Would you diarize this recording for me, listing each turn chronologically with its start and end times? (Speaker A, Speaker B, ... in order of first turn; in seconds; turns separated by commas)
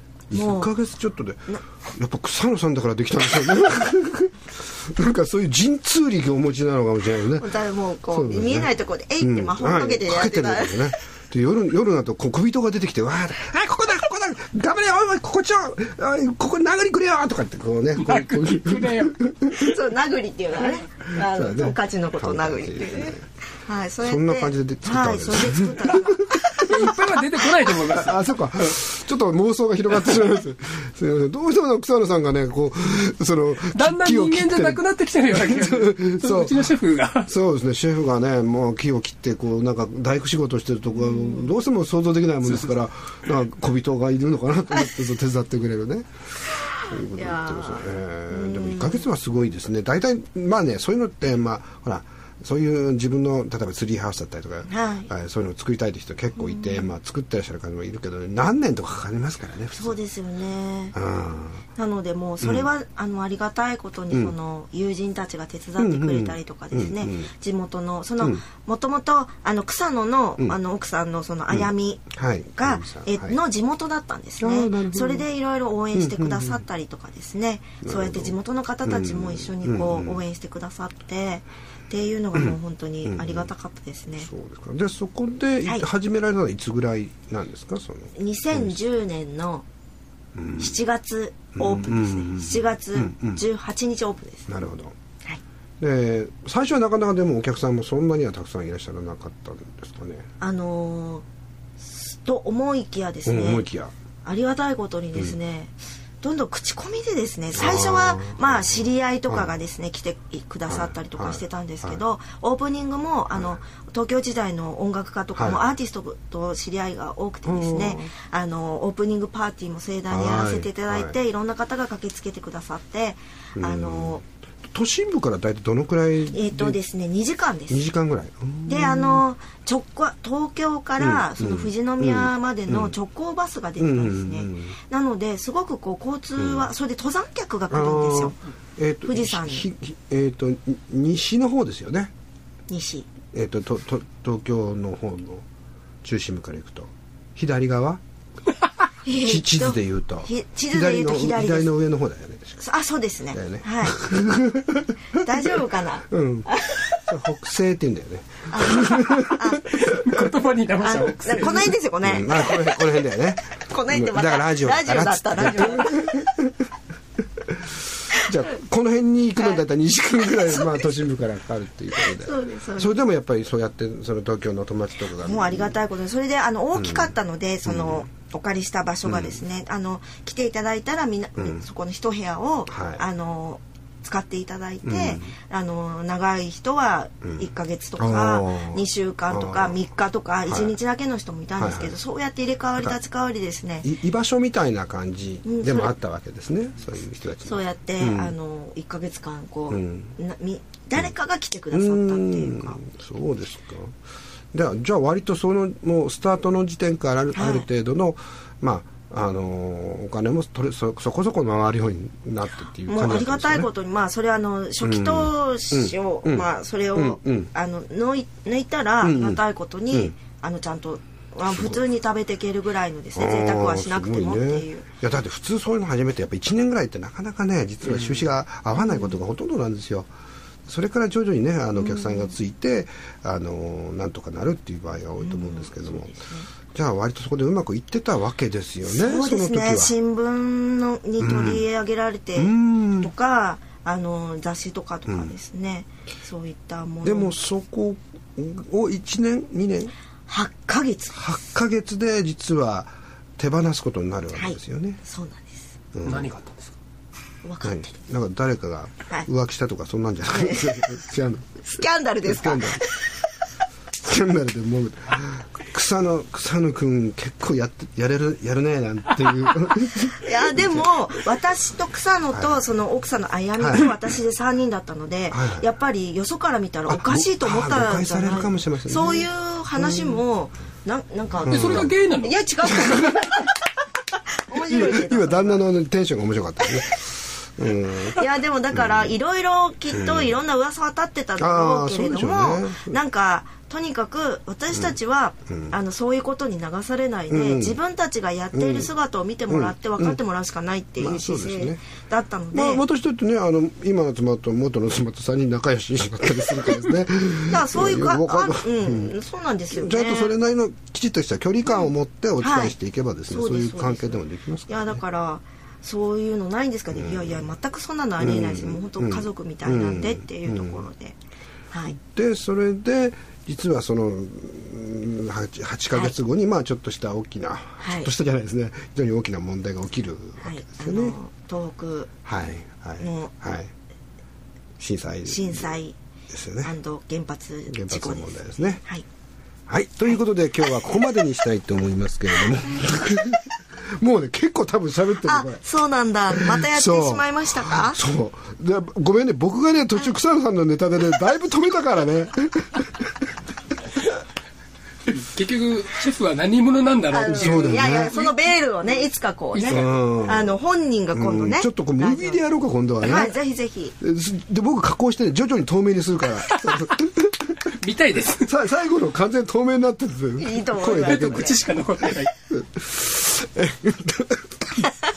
Speaker A: 0.3-7.5, Speaker B: 0.3-0.7, Speaker B: 7.4-10.9, Speaker A: 8.1-19.8, Speaker C: 18.0-19.2, Speaker B: 19.5-27.0, Speaker A: 21.1-23.3, Speaker A: 24.0-26.9, Speaker C: 26.7-28.2, Speaker A: 27.8-36.7, Speaker C: 33.7-37.3, Speaker A: 37.2-46.1, Speaker B: 41.0-41.5, Speaker B: 46.7-49.1, Speaker A: 46.8-60.0, Speaker B: 54.7-55.1, Speaker B: 56.4-56.9, Speaker B: 59.7-61.0, Speaker A: 60.9-61.6, Speaker B: 61.7-84.3, Speaker A: 62.4-62.7, Speaker A: 65.8-67.3, Speaker A: 71.5-73.4, Speaker A: 74.4-75.3, Speaker A: 75.9-76.6, Speaker A: 77.8-80.2, Speaker A: 82.3-83.5, Speaker A: 84.2-88.8, Speaker B: 88.2-89.7, Speaker A: 90.3-90.8, Speaker B: 90.6-94.5, Speaker A: 91.5-93.4, Speaker A: 94.5-94.9, Speaker A: 95.8-100.3, Speaker B: 100.4-101.2, Speaker B: 101.8-103.7, Speaker A: 103.3-103.9, Speaker B: 104.2-124.2, Speaker A: 107.5-109.5, Speaker A: 110.7-112.0, Speaker A: 115.3-115.6, Speaker A: 117.5-118.1, Speaker A: 120.1-121.2, Speaker A: 123.6-126.8, Speaker B: 126.3-127.8, Speaker A: 127.7-129.2, Speaker B: 128.7-138.4, Speaker A: 131.0-132.9, Speaker A: 133.8-134.8, Speaker A: 136.4-136.7, Speaker A: 137.7-142.1, Speaker B: 139.1-139.7, Speaker B: 142.7-143.1, Speaker A: 143.3-145.4, Speaker A: 146.0-148.0, Speaker B: 149.0-151.7, Speaker A: 149.2-152.6, Speaker B: 152.6-154.0, Speaker A: 153.3-160.0, Speaker B: 155.2-157.0, Speaker B: 158.5-159.8, Speaker C: 159.8-161.7, Speaker B: 160.8-162.9, Speaker A: 162.0-166.5, Speaker B: 163.6-166.3, Speaker A: 168.1-175.8, Speaker B: 171.9-173.0, Speaker B: 175.1-193.9, Speaker A: 176.8-177.1, Speaker A: 177.7-178.0, Speaker A: 179.1-179.4, Speaker A: 182.7-183.0, Speaker A: 184.8-185.3, Speaker A: 188.0-189.8, Speaker A: 190.5-190.8, Speaker A: 191.6-192.0, Speaker A: 193.8-198.3, Speaker B: 195.4-195.9, Speaker B: 197.4-202.8, Speaker A: 199.7-200.2, Speaker A: 201.7-203.9, Speaker A: 204.5-213.7, Speaker B: 207.3-207.7, Speaker B: 212.8-224.9, Speaker A: 214.8-217.5, Speaker A: 219.0-220.1, Speaker A: 221.5-221.8, Speaker A: 223.2-230.1, Speaker B: 228.8-229.2, Speaker A: 230.7-236.1, Speaker B: 231.8-232.4, Speaker B: 235.2-236.5, Speaker A: 236.7-239.9, Speaker B: 238.8-247.4, Speaker A: 241.2-241.7, Speaker A: 242.4-243.1, Speaker A: 245.1-245.3, Speaker A: 247.0-249.9, Speaker B: 250.3-251.2, Speaker A: 251.1-255.0, Speaker B: 254.3-255.7, Speaker A: 255.9-256.3, Speaker C: 256.1-256.7, Speaker B: 257.4-258.0, Speaker A: 257.6-261.7, Speaker B: 260.3-260.8, Speaker B: 261.6-262.9, Speaker A: 262.2-262.8, Speaker A: 264.0-270.9, Speaker B: 270.1-283.5, Speaker A: 272.3-272.6, Speaker A: 273.6-273.9, Speaker A: 275.3-275.7, Speaker A: 276.9-280.2, Speaker A: 281.4-281.9, Speaker C: 281.4-283.1, Speaker A: 282.7-283.4, Speaker B: 284.3-285.6, Speaker A: 284.5-289.1, Speaker B: 288.1-302.8, Speaker A: 289.9-290.4, Speaker A: 291.4-293.0, Speaker A: 295.5-295.7, Speaker A: 297.3-297.8, Speaker A: 298.5-298.9, Speaker A: 299.5-300.2, Speaker A: 301.0-301.8, Speaker A: 302.5-309.1, Speaker B: 307.5-310.4, Speaker A: 309.7-315.0, Speaker B: 312.4-312.8, Speaker B: 313.3-321.2, Speaker A: 316.9-317.5, Speaker A: 318.2-320.9, Speaker B: 321.7-322.0, Speaker A: 322.0-331.2, Speaker B: 327.8-328.1, Speaker B: 330.4-332.1, Speaker A: 332.2-333.7, Speaker B: 333.0-333.3, Speaker A: 334.8-335.8, Speaker B: 335.3-336.0, Speaker A: 336.3-336.7, Speaker B: 336.6-339.1, Speaker A: 337.7-338.8, Speaker A: 339.7-345.6, Speaker B: 340.1-340.7, Speaker B: 345.2-348.0, Speaker A: 346.3-353.3, Speaker C: 355.1-358.3, Speaker B: 357.1-362.4, Speaker A: 357.2-358.2, Speaker C: 359.5-359.9, Speaker A: 359.7-360.5, Speaker A: 361.1-363.3, Speaker B: 363.0-364.0, Speaker A: 364.0-367.6, Speaker C: 367.7-368.5, Speaker A: 368.4-371.6, Speaker B: 370.4-371.6, Speaker C: 370.9-372.3, Speaker A: 372.5-374.9